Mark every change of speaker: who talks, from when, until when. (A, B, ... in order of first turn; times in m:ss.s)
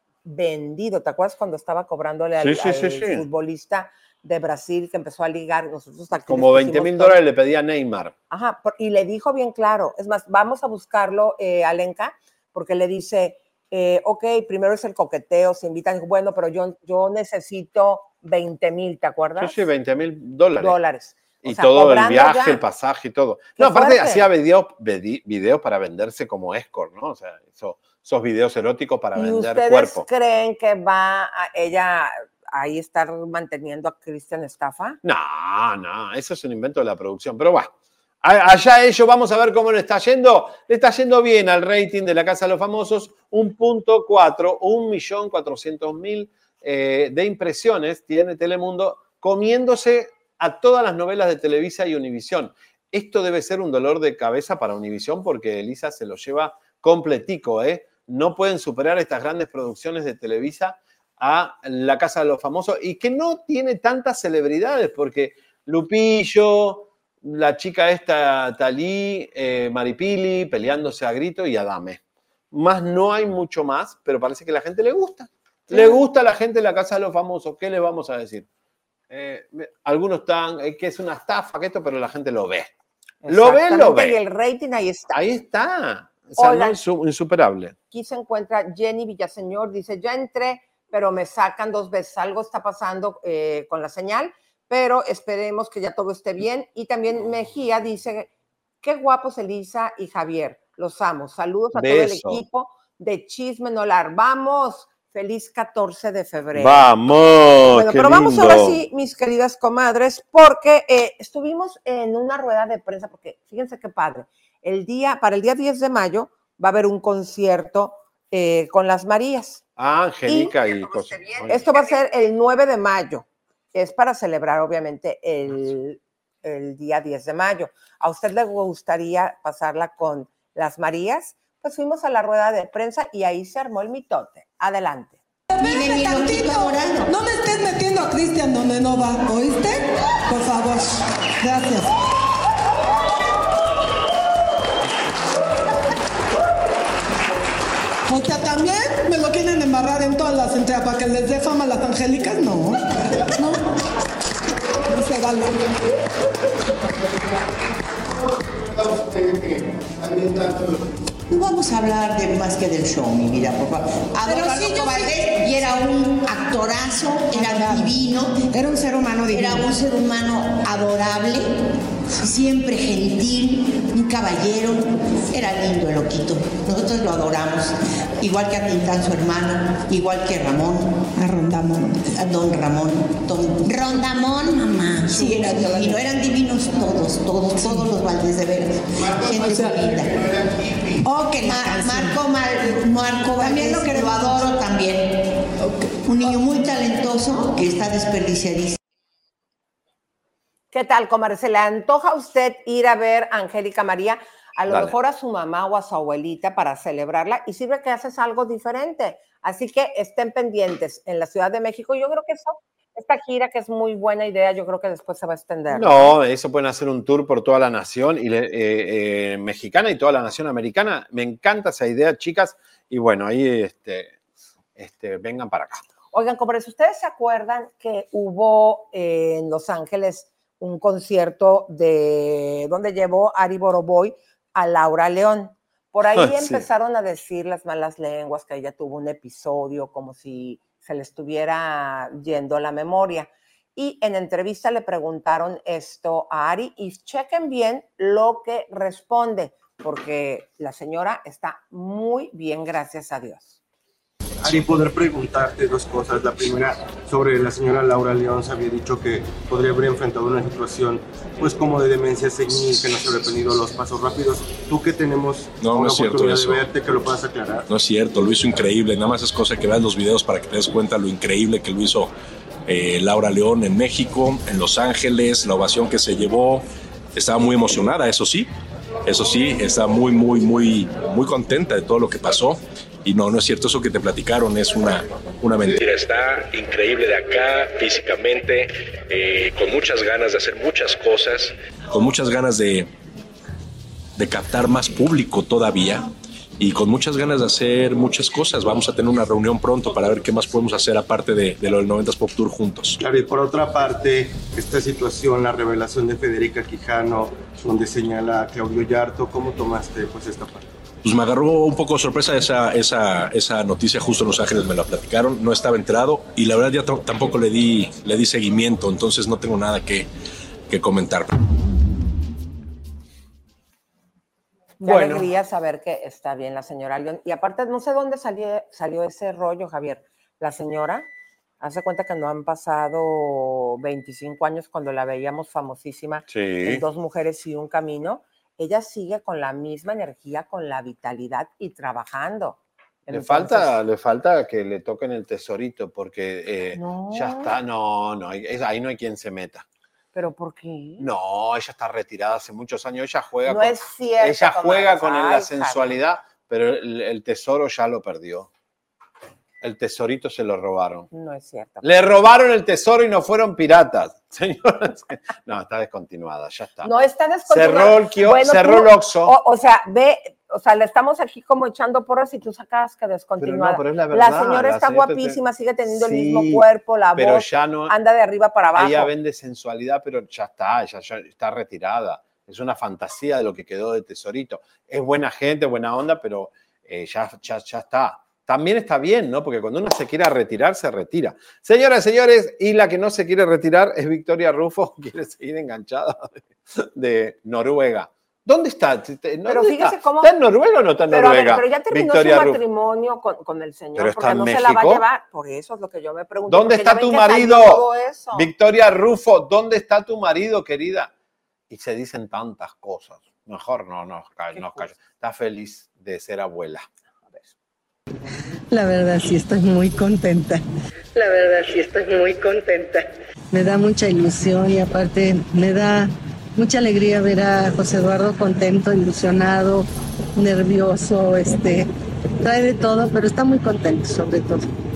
0:00.2-0:07.2 A
0:02.4-0:03.2 B
0:06.3-0:08.1 B
0:08.3-0:19.6 A
0:19.4-0:20.8 B
0:20.6-0:22.6 A
0:21.4-0:30.0 B
0:23.6-0:24.3 A
0:29.1-0:35.0 A
0:35.0-1:12.0 B
1:12.5-1:18.5 B
1:15.7-1:16.0 A
1:19.1-1:22.7 B
1:23.2-1:25.2 A
1:23.3-1:24.2 B
1:25.1-1:27.7 B
1:26.4-1:26.8 A
1:27.9-1:38.3 A
1:38.8-1:46.9 A
1:41.7-1:42.4 B
1:46.5-1:48.8 B
1:47.7-1:59.6 A
1:59.8-2:01.7 B
2:00.3-2:15.2 A
2:15.6-2:17.1 C
2:15.6-2:16.3 D
2:17.1-2:19.7 D
2:20.3-2:20.8 D
2:21.4-2:21.8 D
2:28.1-2:30.2 D
2:31.8-2:32.6 D
2:34.9-2:35.3 D
2:41.3-2:48.5 C
2:49.1-2:51.5 C
2:52.1-3:10.2 C
3:11.0-3:15.0 C
3:16.0-3:18.8 C
3:20.7-3:36.1 A
3:24.7-3:24.9 B
3:35.7-3:44.1 B
3:44.8-3:45.8 B
3:46.1-4:13.6 A
3:56.1-3:56.6 B
4:14.4-4:27.6 E
4:25.6-4:26.6 F
4:27.7-4:32.1 F
4:32.6-4:38.5 F
4:39.0-4:52.9 F
4:54.2-5:03.0 F
5:03.0-5:10.6 E
5:11.0-5:20.1 F
5:20.7-5:21.3 F
5:24.8-5:31.1 A
5:24.8-5:25.3 B
5:31.6-5:43.7 A
5:36.3-5:36.8 B
5:43.1-5:49.6 B
5:46.7-5:47.6 A
5:50.1-5:51.1 A
5:51.0-5:58.5 B
5:53.4-5:56.0 A
5:59.6-6:01.1 B
6:01.1-6:01.9 A
6:01.8-6:06.9 B
6:06.8-6:19.1 A
6:07.5-6:09.3 B
6:13.4-6:16.6 B
6:17.2-6:17.9 B
6:18.7-6:42.6 B
6:39.5-6:40.3 A
6:41.1-6:48.5 A
6:43.9-6:45.0 B
6:46.5-6:51.1 B
6:51.7-6:56.9 B
6:54.5-6:54.9 A
6:58.7-7:00.6 G
7:01.1-7:11.9 G
7:12.4-7:14.7 G